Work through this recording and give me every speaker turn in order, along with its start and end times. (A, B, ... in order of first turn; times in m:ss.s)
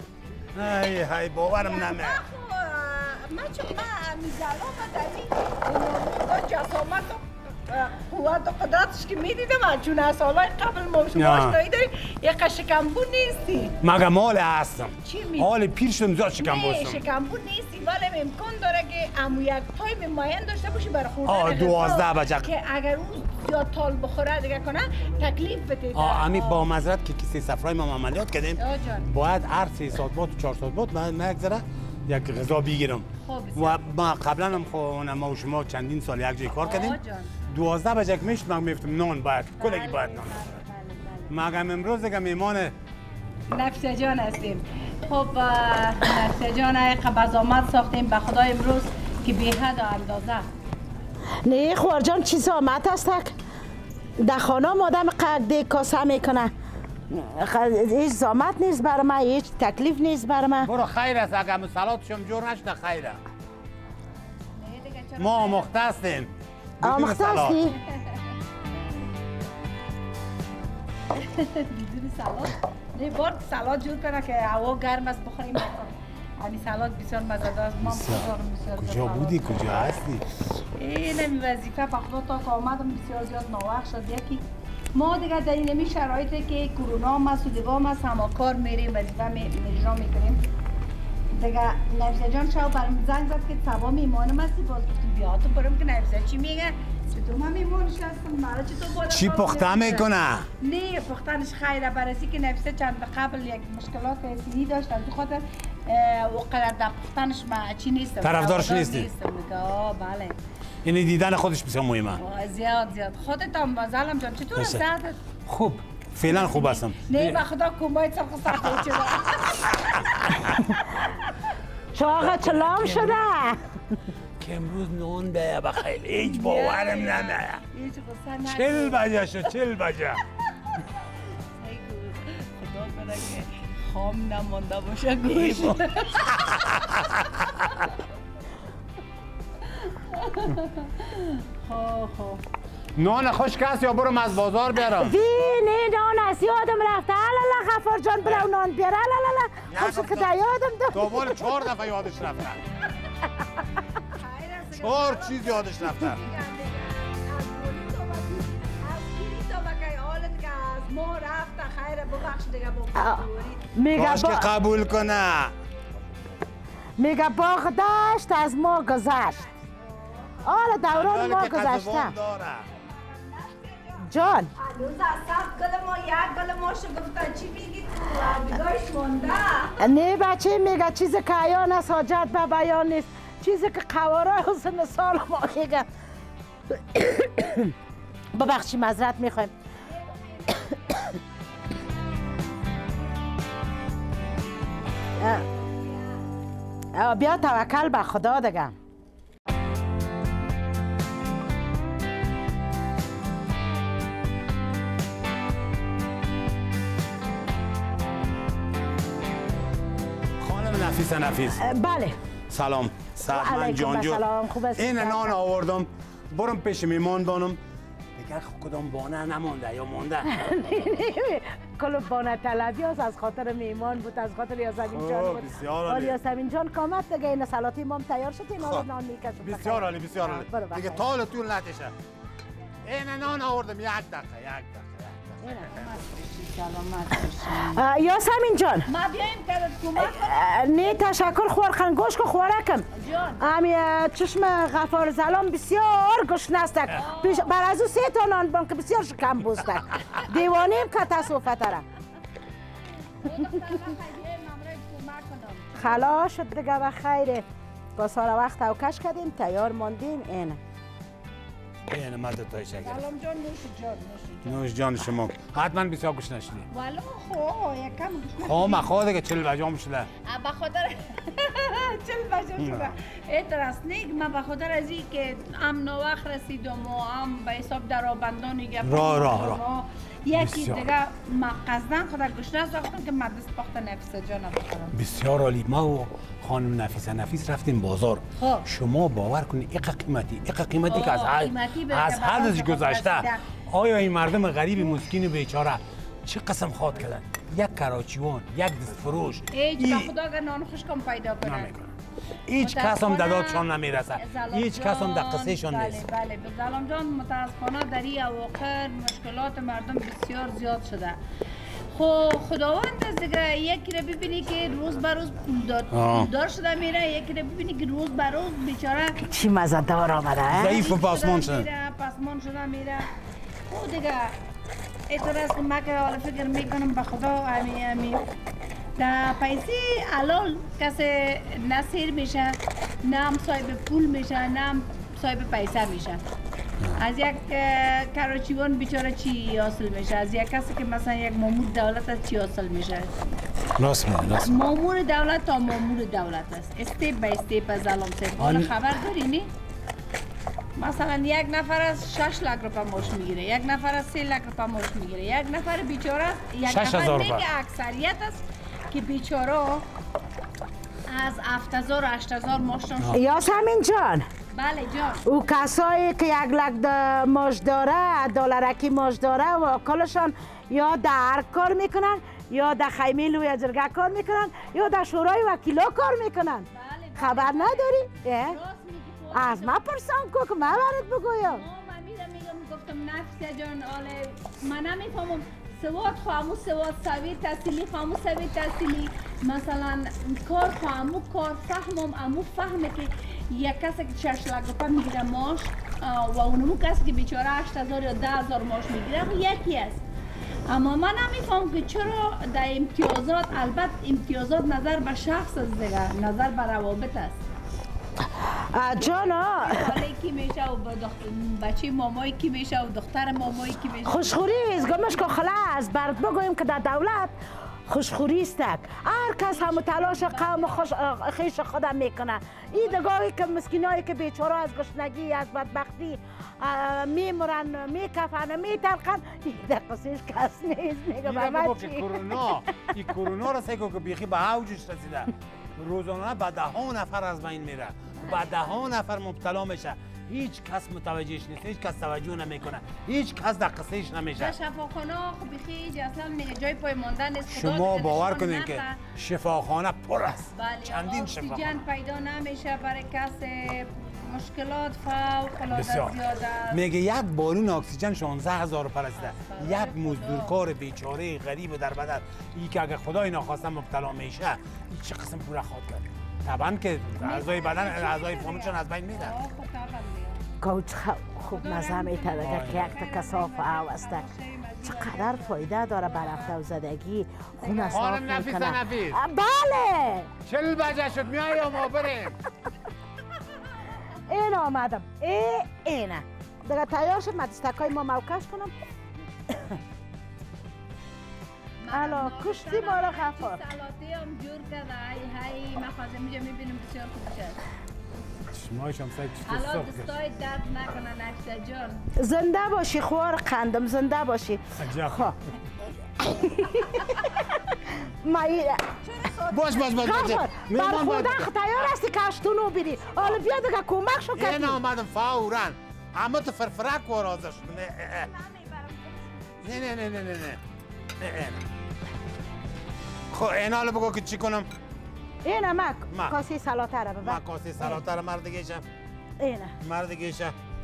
0:00.5-0:02.2 A
0:01.5-0:13.8 B
0:11.1-0:11.6 A
0:13.8-0:17.0 A
0:15.0-0:15.5 B
0:16.4-0:26.6 B
0:21.2-0:22.5 A
0:25.9-0:40.5 A
0:28.6-0:29.1 B
0:33.2-0:33.8 B
0:36.6-0:37.3 B
0:39.6-0:41.3 B
0:41.3-0:42.7 A
0:43.5-0:50.5 B
0:51.4-0:53.3 C
0:54.2-0:56.5 C
0:57.1-1:00.7 C
1:00.6-1:03.2 A
1:04.6-1:05.7 B
1:05.2-1:07.6 A
1:06.8-1:07.8 C
1:11.1-1:19.6 B
1:17.8-1:20.2 A
1:20.6-1:24.4 B
1:24.9-1:30.4 B
1:31.3-1:40.1 B
1:39.0-1:40.5 A
1:40.6-1:50.4 B
1:48.2-1:49.1 A
1:50.8-1:52.2 A
1:52.2-1:55.2 B
1:54.6-1:54.8 A
1:55.4-1:57.4 A
1:56.3-1:59.6 B
1:58.6-2:00.7 A
2:01.9-2:03.6 C
2:02.0-2:03.2 A
2:04.4-2:07.6 A
2:06.2-2:09.0 B
2:08.4-2:10.2 A
2:11.6-2:16.6 B
2:15.4-2:17.4 A
2:19.7-2:22.4 B
2:23.0-2:25.2 A
2:24.9-2:31.5 C
2:29.7-2:30.3 A
2:30.9-2:32.6 A
2:34.0-2:43.6 B
2:34.7-2:36.2 A
2:43.0-2:44.5 C
2:43.9-2:45.5 A
2:47.0-2:49.4 C
2:49.5-2:50.4 B
2:50.4-2:52.1 C
2:50.9-2:52.7 A
2:52.6-2:59.8 B
2:54.0-2:54.5 C
2:59.8-3:05.9 C
3:06.7-3:07.7 C
3:08.3-3:09.5 C
3:09.9-3:11.0 B
3:10.5-3:11.2 C
3:15.2-3:15.4 C
3:16.9-3:18.8 C
3:30.4-3:31.6 A
3:31.6-3:32.2 C
3:32.5-3:34.2 A
3:33.2-3:35.4 C
3:34.7-3:37.6 A
3:38.1-3:40.3 A
3:40.2-3:51.0 C
3:44.8-3:46.2 A
3:48.6-3:48.8 A
3:49.4-3:51.9 A
3:52.8-3:56.0 A
3:55.4-3:55.7 C
3:55.7-3:57.8 B
3:57.5-3:58.9 C
3:58.9-4:00.4 B
4:00.0-4:02.9 C
4:02.9-4:03.4 B
4:03.4-4:11.8 C
4:06.9-4:07.5 B
4:10.2-4:11.0 B
4:13.0-4:16.2 B
4:15.8-4:17.4 C
4:18.0-4:20.6 C
4:21.9-4:23.0 A
4:22.8-4:24.7 B
4:24.4-4:26.7 A
4:26.7-4:28.9 B
4:28.4-4:30.1 A
4:30.2-4:45.0 B
4:32.6-4:32.9 A
4:38.8-4:39.6 A
4:40.3-4:40.8 A
4:44.9-5:00.1 A
4:48.4-4:48.6 B
4:50.9-4:53.4 B
4:59.5-5:01.8 B
5:01.4-5:01.9 A
5:02.5-5:06.0 A
5:02.6-5:11.2 B
5:11.9-5:19.3 B
5:15.9-5:16.3 A
5:19.2-5:20.8 C
5:20.5-5:21.7 A
5:20.6-5:23.1 B
5:23.7-5:24.4 B
5:25.1-5:28.2 B
5:29.0-5:36.2 B
5:37.0-5:43.2 B
5:43.8-5:44.7 A
5:44.4-5:49.5 B
5:48.4-5:48.7 A
5:50.8-5:59.8 B
5:56.6-5:57.4 A
6:01.1-6:03.2 B
6:03.1-6:04.3 C
6:04.5-6:05.2 B
6:05.2-6:18.6 C
6:16.7-6:19.8 B
6:19.3-6:21.6 C
6:21.4-6:40.0 B
6:40.7-6:47.4 B
6:48.4-6:50.0 C
6:49.0-6:55.4 B
6:54.0-6:57.3 C
6:57.9-7:12.6 C
6:59.5-7:00.8 B
7:11.2-7:24.5 A
7:24.4-7:29.0 B
7:27.5-7:31.8 A
7:30.5-7:36.8 B
7:35.7-7:36.2 A
7:36.7-7:49.3 A
7:39.2-7:40.6 B
7:47.2-7:50.4 B
7:50.6-7:54.2 C
7:51.5-7:56.6 B
7:52.4-7:52.9 A
7:54.8-8:00.3 C
7:57.6-7:58.0 B
7:57.9-7:59.2 A
8:00.4-8:02.4 A
8:04.2-8:08.7 C
8:09.5-8:09.8 C
8:11.8-8:17.6 B
8:11.9-8:13.6 C
8:18.5-8:20.1 A
8:19.4-8:22.1 B
8:22.2-8:25.3 C
8:24.8-8:25.3 A
8:26.2-8:28.8 C
8:29.0-8:30.2 B
8:29.5-8:31.5 A
8:30.0-8:34.8 C
8:34.3-8:38.3 A
8:38.1-8:39.9 B
8:39.6-8:40.6 A
8:41.2-8:41.6 A
8:43.3-8:44.7 A
8:45.4-8:48.0 C
8:46.1-8:46.3 A
8:47.2-8:48.8 A
8:49.4-8:49.7 C
8:49.8-8:50.5 A